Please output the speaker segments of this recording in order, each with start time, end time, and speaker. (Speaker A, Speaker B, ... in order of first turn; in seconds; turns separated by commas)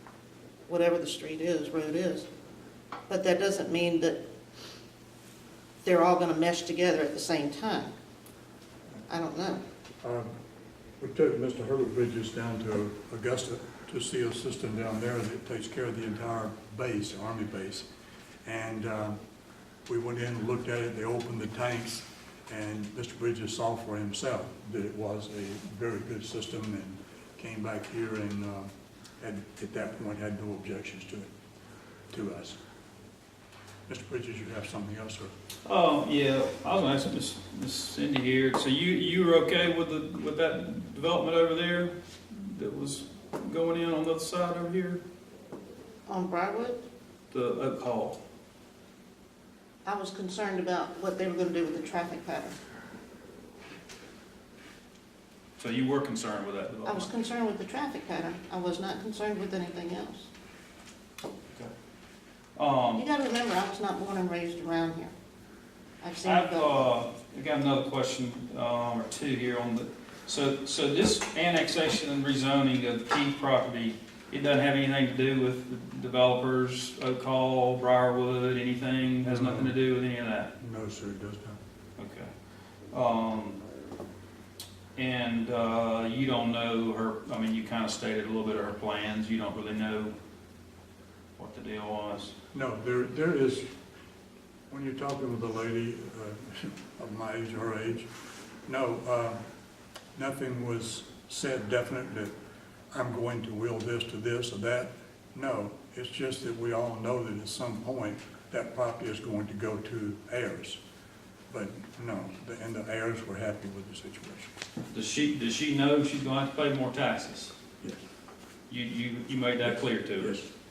Speaker A: 0.7-2.3, Speaker A: 3.1-4.2, Speaker A: 5.8-7.9, Speaker A: 9.1-9.6, Speaker B: 10.0-10.3, Speaker B: 11.0-17.9, Speaker B: 18.4-19.2, Speaker B: 19.9-31.3, Speaker B: 32.1-32.6, Speaker B: 33.9-35.3, Speaker C: 35.6-45.0, Speaker A: 46.1-46.8, Speaker C: 47.3-48.2, Speaker A: 49.8-52.6, Speaker C: 55.6-57.1, Speaker A: 56.9-60.3, Speaker C: 62.5-63.0, Speaker A: 63.0-65.1, Speaker A: 66.0-66.9, Speaker C: 66.2-80.5, Speaker B: 79.2-79.8, Speaker B: 80.6-81.6, Speaker C: 82.0-82.3, Speaker C: 82.9-83.6, Speaker C: 85.0-90.2, Speaker C: 91.4-92.3, Speaker B: 92.5-93.7, Speaker B: 94.7-98.1, Speaker B: 98.7-99.4, Speaker B: 100.2-102.3, Speaker B: 102.9-110.8, Speaker B: 111.5-114.5, Speaker C: 114.9-117.5, Speaker C: 118.7-120.4, Speaker B: 120.2-120.5